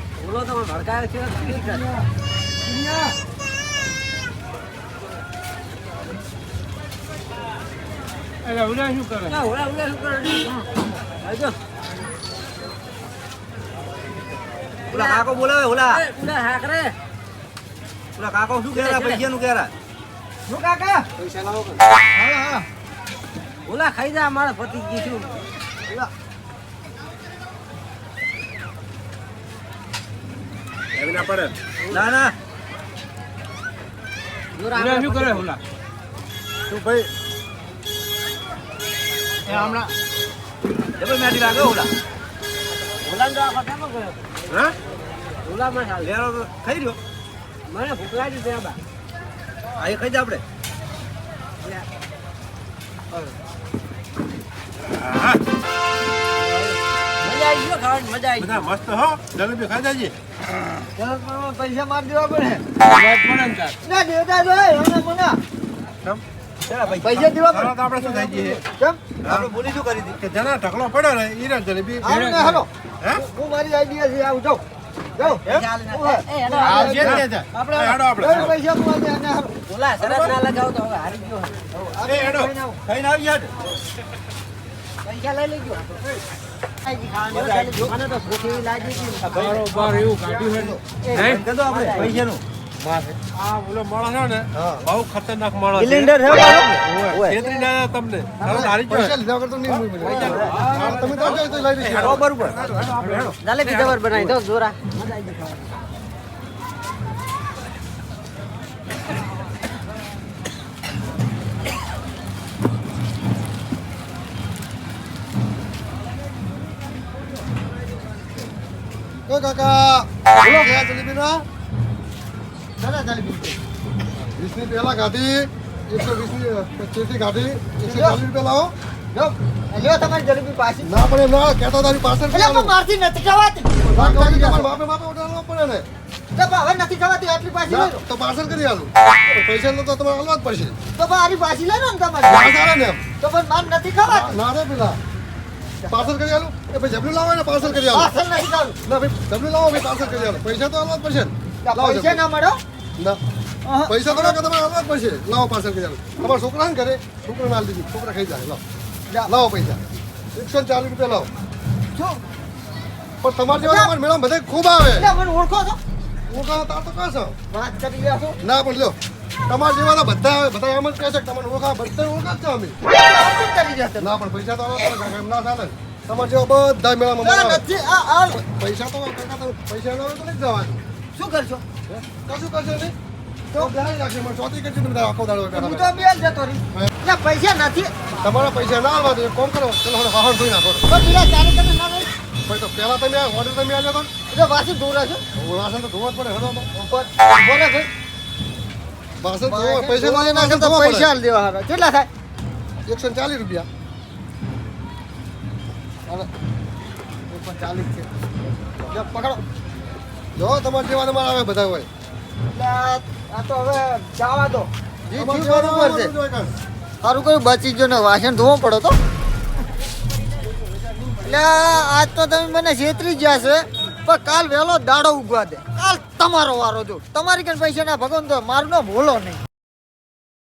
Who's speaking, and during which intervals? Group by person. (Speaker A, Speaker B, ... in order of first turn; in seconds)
Speaker A: 0.2-1.9, 9.3-10.7, 11.2-11.6, 14.9-15.3, 15.9-16.9, 18.7-19.2, 20.5-21.1, 23.6-25.4, 34.5-35.5, 43.0-44.2, 45.5-46.1, 47.7-48.8, 57.2-58.5, 75.2-78.0, 79.7-81.6, 85.0-86.0, 86.8-89.6, 91.0-92.2, 98.4-98.7, 102.7-105.7
Speaker B: 8.4-9.4, 34.8-35.6, 39.5-39.8, 62.8-63.8, 72.1-72.6, 89.3-91.4, 100.5-100.8
Speaker C: 14.9-16.0, 18.1-19.7, 31.9-32.4, 41.0-41.9, 46.0-47.0, 49.8-50.4, 66.7-67.5, 69.2-70.2, 75.5-75.7, 82.8-83.5, 87.3-87.9, 89.2-92.4, 94.6-94.8, 95.8-97.4, 100.1-100.7, 101.9-102.6
Speaker D: 22.1-22.6, 61.0-62.6, 63.8-65.4, 67.0-69.0, 72.0-74.6, 75.2-77.2, 78.1-79.5, 81.7-82.8, 120.5-120.7, 122.8-123.6, 127.8-128.2, 129.1-130.9, 132.3-134.8, 136.3-138.0, 140.9-142.6, 143.2-144.4, 145.8-146.1, 147.6-148.8, 151.6-152.6, 153.6-154.4, 159.1-159.3, 161.9-162.2, 163.6-163.9, 164.9-165.8, 167.5-168.4, 172.9-174.1, 177.2-178.4, 181.1-181.6, 185.5-187.9, 190.9-192.1, 194.3-195.2, 196.7-197.9, 199.4-202.1, 207.3-208.1, 208.9-209.4, 212.5-216.1, 217.0-218.9, 221.2-229.4
Speaker E: 30.9-31.5, 36.7-37.1, 44.5-44.8, 54.9-55.4, 58.4-60.1, 67.4-68.6, 70.2-72.1, 76.6-78.5, 80.0-80.4, 82.0-82.5, 92.8-99.1, 99.7-104.3
Speaker F: 98.8-102.2, 119.3-121.5, 124.3-128.7, 130.8-132.8, 133.9-135.9, 137.7-140.8, 142.3-143.0, 144.1-145.0, 145.9-148.1, 148.8-152.2, 153.9-158.6, 159.3-159.8, 160.3-161.3, 163.2-165.1, 166.3-167.4, 168.4-172.8, 174.0-177.6, 178.4-180.8, 181.9-182.9, 183.6-185.9, 188.2-190.9, 192.5-194.1, 195.3-196.7, 199.2-201.1, 202.9-203.7, 210.3-211.9, 215.1-216.5